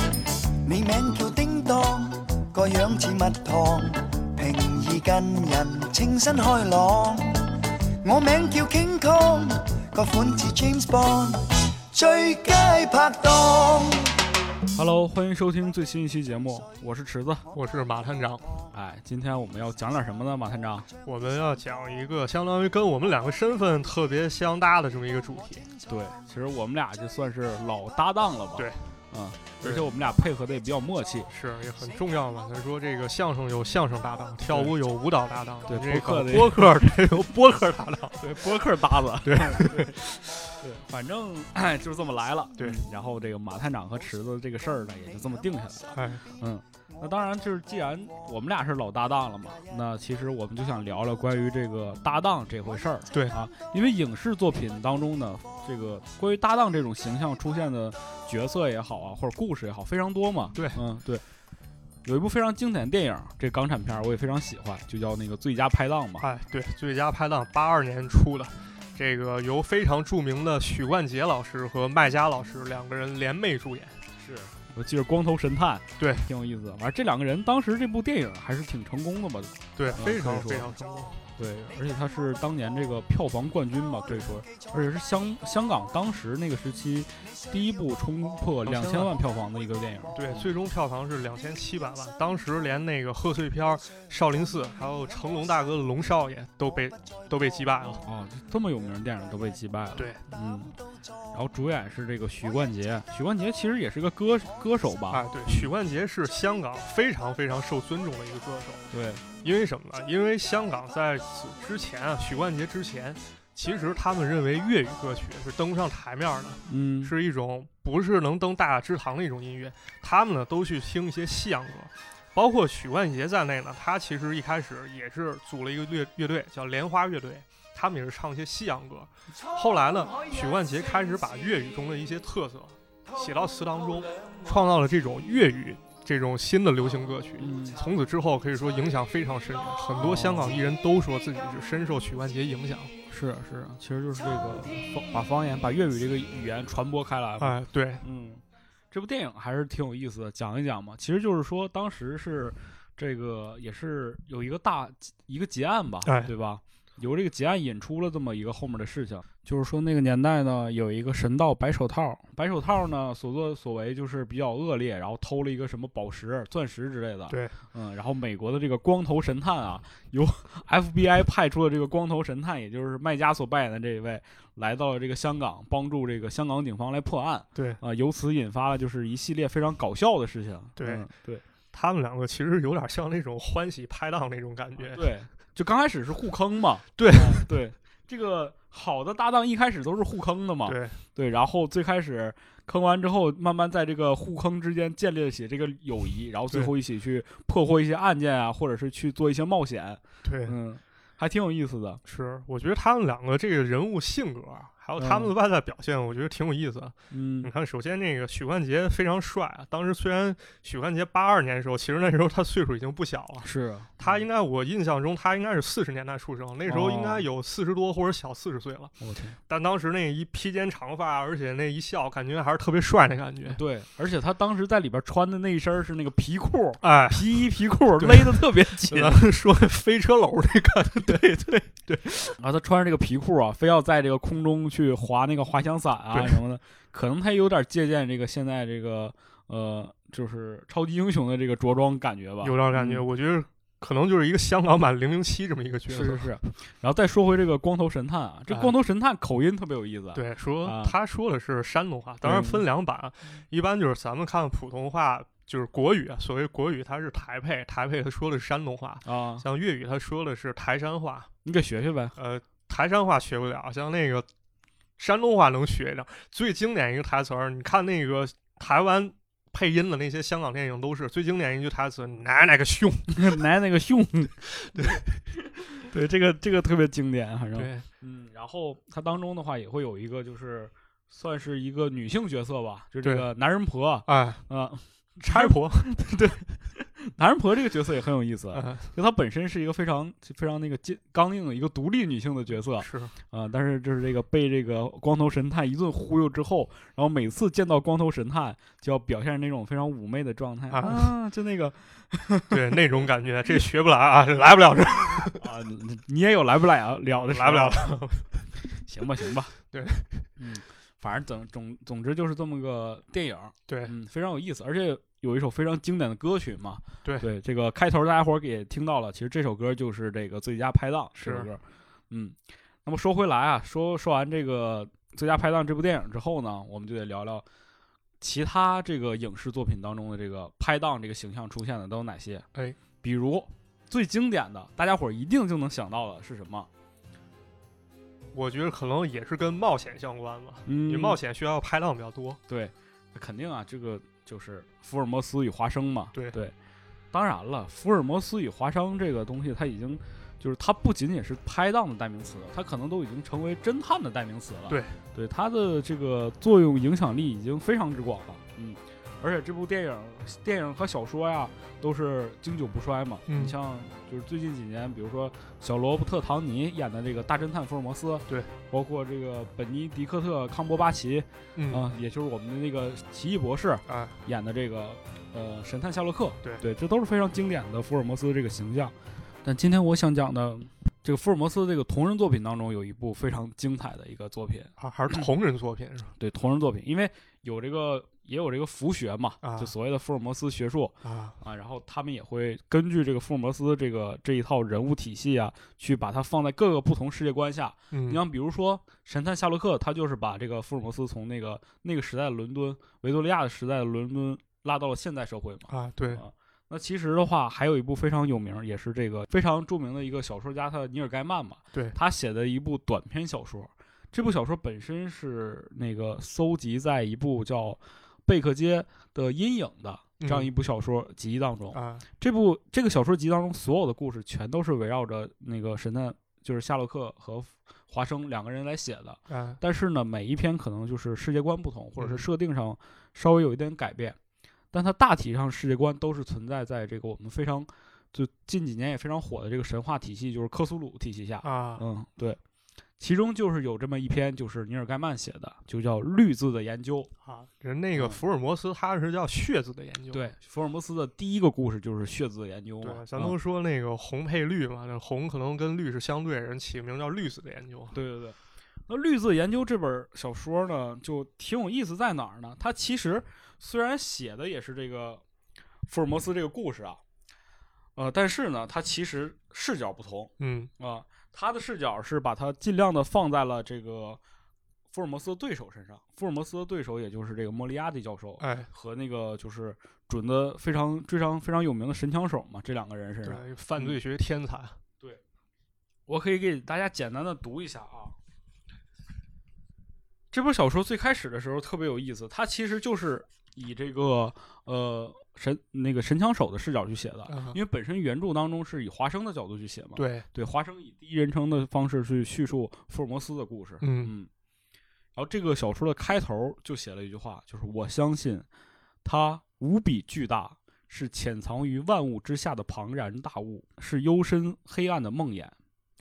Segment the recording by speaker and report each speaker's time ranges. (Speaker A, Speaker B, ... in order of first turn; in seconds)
Speaker A: 0.6-14.2
Speaker B: 14.7-17.5, 18.7-20.9, 25.9-31.3, 34.5-34.8, 35.7-36.9, 38.2-40.0, 40.6-61.2, 62.0-66.3, 74.2-80.7, 81.4-90.5, 98.0-100.8, 101.3-105.7, 108.9-109.2, 116.7-117.1, 137.4-137.8, 140.0-140.6, 143.1-181.4, 184.9-202.0, 205.0-205.3, 207.1-207.5, 213.4-214.2, 216.7-217.3, 219.0-219.4, 223.5-229.2, 232.3-243.1, 245.9-251.0, 252.2-252.7, 259.0-259.5, 261.4-262.2, 273.1-302.8, 305.4-308.0, 308.7-309.6, 310.4-327.4, 328.2-332.5, 333.0-336.7, 340.7-341.2, 342.5-346.6, 347.1-385.3, 386.2-434.2, 434.7-442.4, 443.0-447.1, 448.0-448.2, 450.1-453.4, 457.9-458.4, 458.9-465.2, 465.9-467.0, 468.0-474.2, 474.9-484.0, 486.1-488.2, 490.3-504.3, 505.1-508.5, 509.0-515.5
Speaker C: 17.5-18.6, 21.1-25.7, 28.6-28.9, 29.6-29.9, 31.3-38.3, 39.2-40.6, 46.0-46.2, 53.1-53.4, 60.5-60.8, 66.2-74.0, 76.0-76.3, 79.8-81.2, 88.7-89.2, 90.1-98.0, 100.0-100.2, 105.1-142.9, 147.4-148.0, 156.0-156.3, 167.3-167.6, 177.6-177.8, 180.8-181.1, 181.7-185.1, 187.0-187.5, 190.7-191.0, 200.2-200.6, 202.1-218.9, 219.5-223.6, 226.8-227.4, 228.0-232.3, 236.1-236.4, 242.4-246.3, 250.1-261.3, 262.2-264.3, 265.0-273.4, 274.6-275.2, 277.6-277.9, 283.0-283.3, 284.1-284.4, 285.2-286.0, 288.5-288.9, 292.8-293.1, 300.7-301.1, 302.5-305.5, 307.1-308.5, 309.7-310.3, 313.7-313.9, 321.2-321.5, 338.3-342.4, 354.7-355.0, 363.3-363.6, 371.6-371.9, 373.9-374.2, 384.8-386.1, 389.4-389.7, 391.0-391.4, 397.9-398.2, 405.7-406.2, 420.2-420.5, 421.7-422.1, 429.3-429.6, 432.0-432.2, 441.4-441.9, 447.2-450.3, 452.8-458.0, 470.4-470.7, 478.4-478.7, 483.2-484.8, 497.3-497.6, 500.0-500.3, 503.8-504.1